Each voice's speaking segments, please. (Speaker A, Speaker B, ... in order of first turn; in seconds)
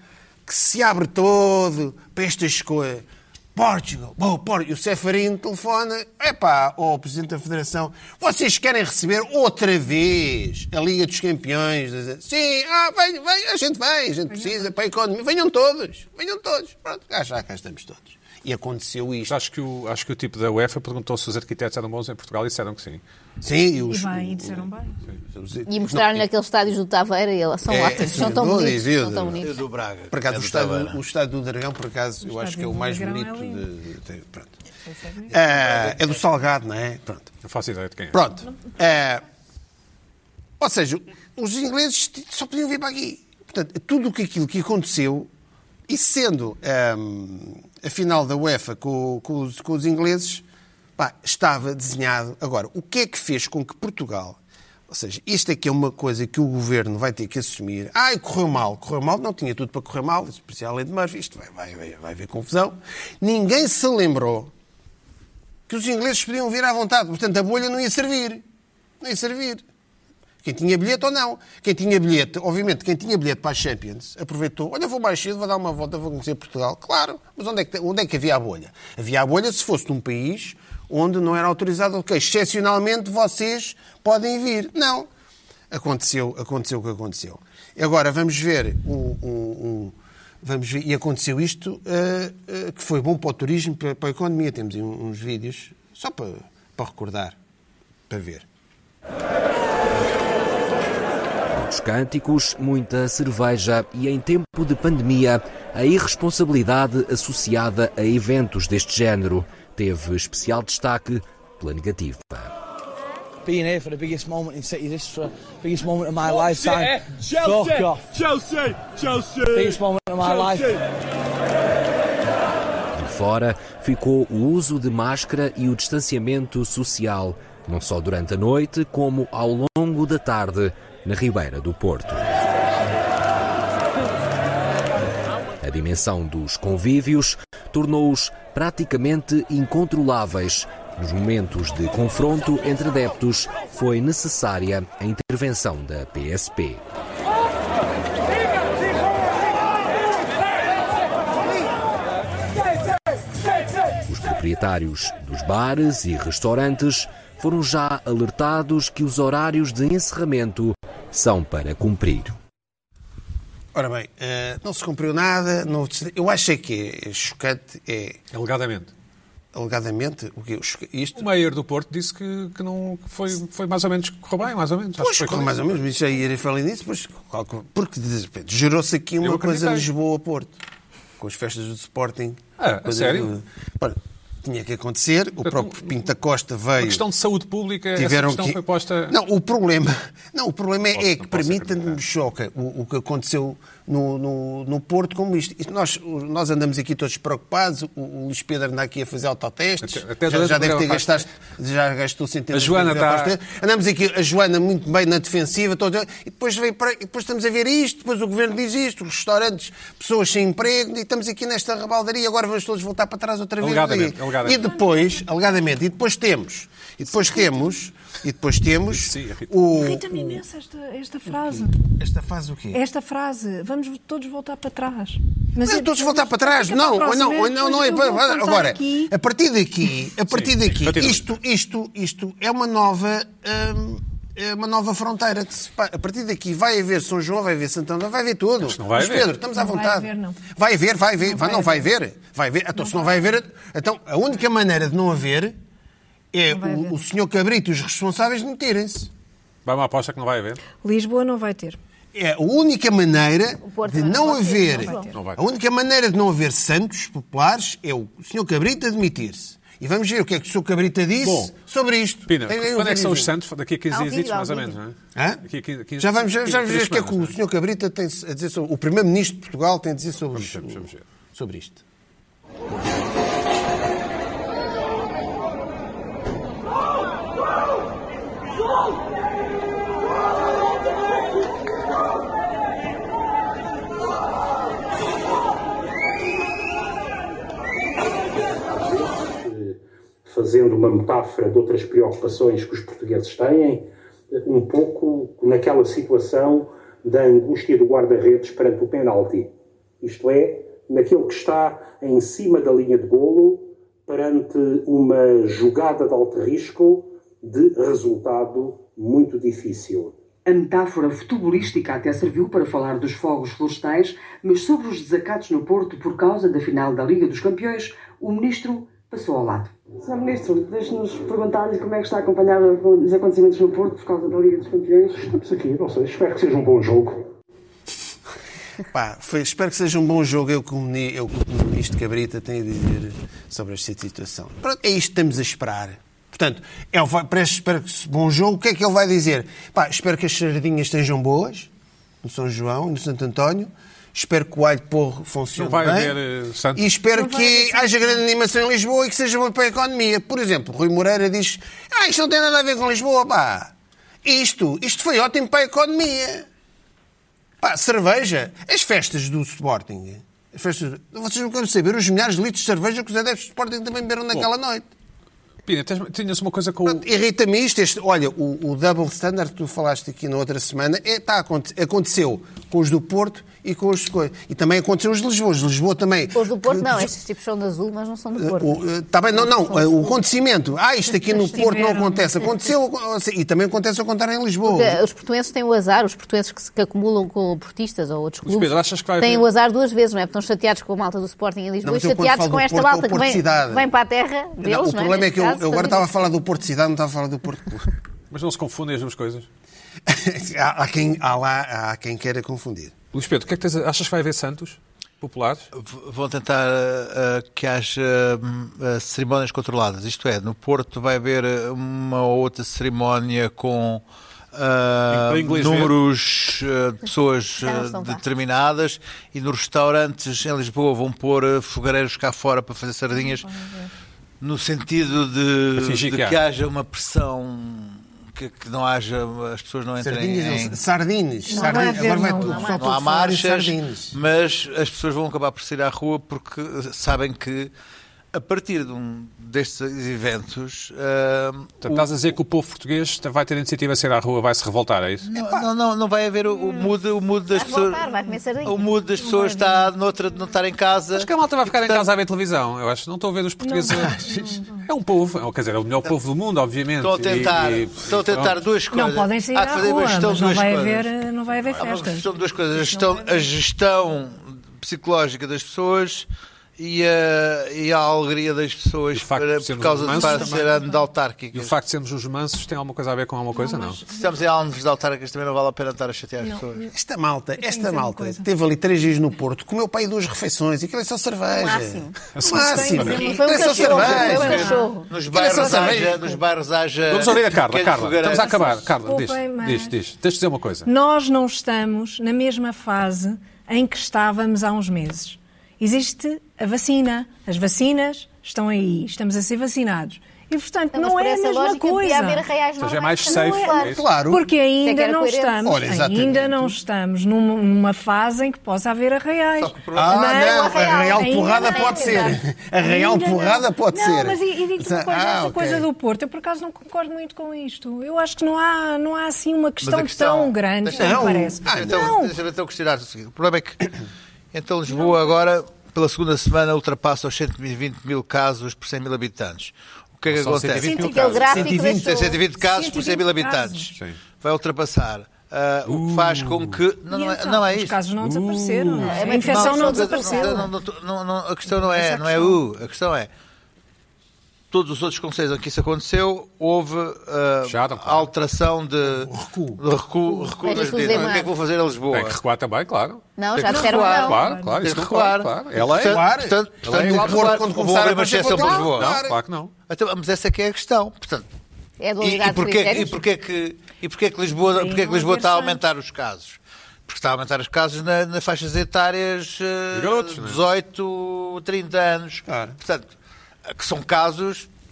Speaker A: 0.5-19.4, 23.4-24.7, 25.3-26.3, 27.7-29.5, 30.1-34.6, 35.3-37.3, 38.1-39.2, 40.6-45.3, 45.9-50.5, 51.0-64.5, 65.7-68.4, 69.0-69.6, 70.4-85.1, 85.7-97.4, 98.1-98.5, 163.7-168.2, 169.5-171.3, 175.0-180.6, 181.2-187.0, 187.9-220.4, 222.0-222.8, 225.6-245.6, 246.3-249.1, 252.1-263.3, 265.1-265.4, 266.0-271.8, 328.9-341.7, 342.2-346.2, 346.8-353.7, 354.2-356.5, 357.6-364.9, 366.9-377.1, 378.4-385.0, 391.8-393.9, 394.6-397.9, 400.1-402.9, 430.0-434.2, 445.4-445.7, 476.9-484.6, 485.3-486.2, 503.9-504.5, 505.6-506.8, 510.0-515.9, 520.9-522.1, 531.5-532.2, 549.0-549.8, 556.0-559.4, 572.5-572.8
Speaker B: 14.3-14.6, 23.9-24.9, 32.2-33.6, 34.9-35.4, 217.1-217.5, 219.7-221.7, 222.7-229.1, 239.5-240.4, 241.3-241.9, 242.8-243.3, 246.5-247.0, 250.8-251.8, 254.8-255.1, 347.1-348.2, 381.6-382.0, 423.1-423.9, 431.5-432.8, 449.2-449.7, 453.6-454.9, 458.9-463.5, 470.1-471.1, 473.5-474.3, 476.4-476.9, 477.6-478.5, 482.4-486.4, 488.3-489.9, 490.9-502.4, 503.2-522.4, 524.9-525.2, 530.8-534.0, 537.1-540.7, 541.7-542.6, 553.7-554.9, 564.7-565.8
Speaker C: 19.3-23.0, 37.4-38.2, 168.3-168.9, 171.2-175.7, 179.2-179.9, 182.6-183.3, 185.4-186.0, 186.8-189.2, 190.9-192.0, 199.8-201.2, 202.5-203.3, 213.6-214.6, 218.9-219.5, 230.3-231.3, 238.6-239.3, 249.7-250.6, 255.1-255.4, 261.2-261.5, 262.3-267.4, 270.3-271.0, 345.6-346.9, 365.7-367.1, 388.4-389.5, 398.3-399.5, 403.1-405.7, 415.1-416.0, 425.8-426.4, 441.8-445.3, 451.1-458.6, 461.5-461.9, 469.1-470.7, 471.5-474.0, 482.4-483.1, 487.1-490.9, 502.8-504.0, 530.3-531.5, 535.9-536.8, 547.7-548.3, 552.1-556.2, 556.8-557.6, 558.9-559.7, 569.9-570.6
Speaker D: 25.7-29.5, 253.6-255.1, 263.9-264.8, 376.4-378.8, 379.4-380.2, 381.6-382.0, 384.6-396.1, 417.6-418.2, 431.5-432.8, 447.5-449.5, 481.5-482.2, 483.0-485.1, 500.9-503.9, 504.8-505.7, 510.4-512.4, 531.1-532.4, 539.1-540.7, 550.6-551.5, 553.4-554.4, 562.0-563.2
Speaker E: 29.4-31.0, 405.7-414.0, 414.5-423.5, 424.4-430.8, 432.1-437.7, 438.3-442.1, 445.3-448.0, 448.6-452.1, 457.0-461.1, 461.8-471.8, 474.1-476.9, 483.6-488.8, 509.6-510.4, 519.8-524.0, 524.5-543.3, 544.7-552.4, 553.6-559.2, 559.9-561.5, 562.2-573.1, 573.7-574.7
Speaker F: 101.5-112.5, 122.9-132.2, 135.6-146.8, 154.1-162.4
Speaker G: 113.5-120.8
Speaker H: 288.7-299.5, 300.0-310.1, 325.1-327.2
Speaker I: 310.5-319.8
Speaker J: 320.0-325.2